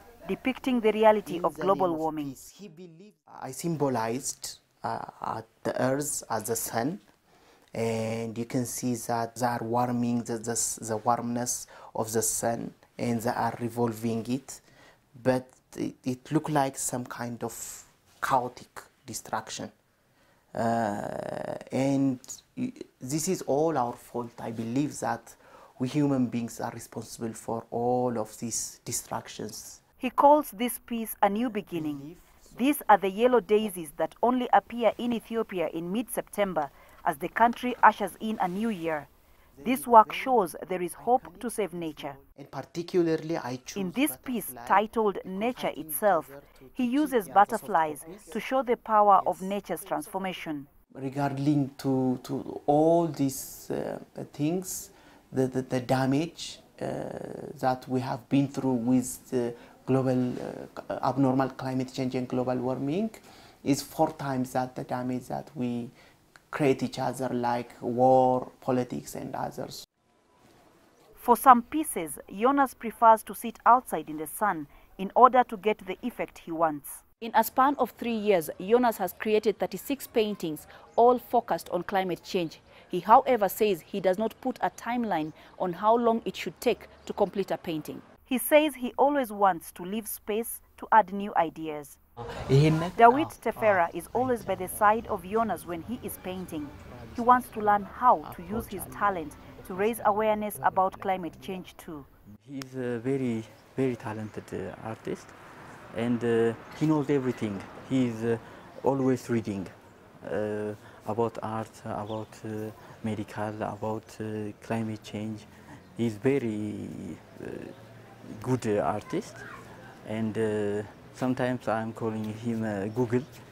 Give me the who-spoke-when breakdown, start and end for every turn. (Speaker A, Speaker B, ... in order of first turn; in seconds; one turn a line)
Speaker A: 0.2-2.3
Speaker B: 1.2-7.0
Speaker B: 7.7-14.6
Speaker B: 15.2-19.7
Speaker B: 20.5-29.8
Speaker A: 30.0-39.1
Speaker B: 31.3-32.7
Speaker B: 39.5-48.4
Speaker A: 39.6-42.2
Speaker A: 43.7-50.7
Speaker B: 49.2-49.5
Speaker B: 50.9-65.9
Speaker B: 66.5-69.8
Speaker A: 71.2-92.0
Speaker B: 92.4-96.1
Speaker A: 93.0-102.1
Speaker B: 96.7-101.7
Speaker C: 102.4-105.3
Speaker C: 105.9-117.7
Speaker C: 118.3-119.4
Speaker C: 120.0-123.3